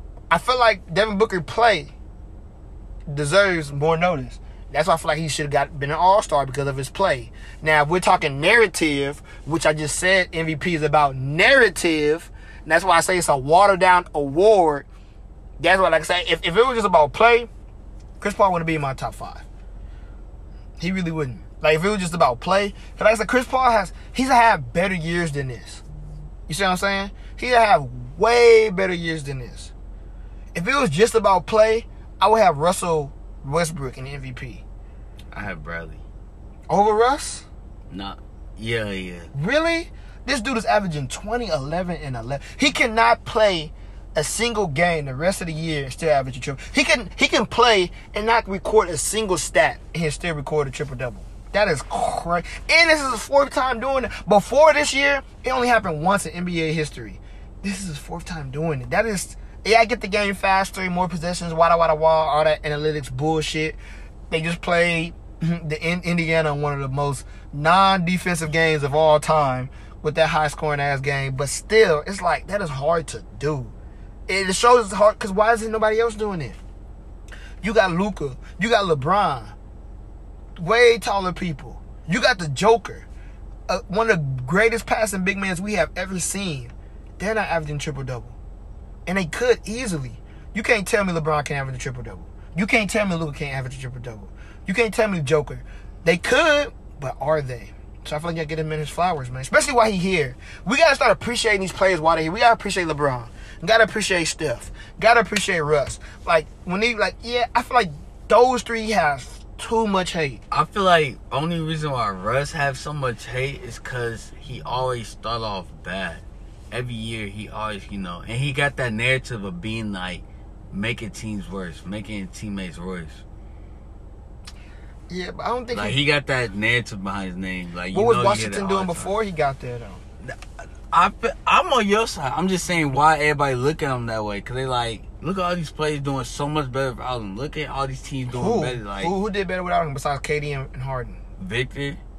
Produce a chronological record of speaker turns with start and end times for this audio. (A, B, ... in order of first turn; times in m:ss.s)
0:00.3-0:01.9 A
0:03.1-0:14.8 A
0:15.6-0:17.5 A
0:18.2-0:19.4 A
0:20.8-0:25.8 A
0:26.5-0:29.7 A
0:30.5-0:34.6 A
0:35.3-0:36.0 B
0:36.7-0:37.4 A
0:37.9-0:39.3 B
0:39.3-1:03.8 A
1:04.3-1:13.7 A
1:14.3-1:16.6 A
1:17.6-1:19.5 A
1:20.6-1:23.0 A
1:23.7-1:28.3 A
1:29.0-1:50.4 A
1:50.5-2:03.2 B
2:05.1-2:06.0 A
2:05.7-2:09.1 B
2:07.9-2:10.0 A
2:10.9-2:19.1 B
2:18.3-2:21.2 A
2:21.4-2:22.0 B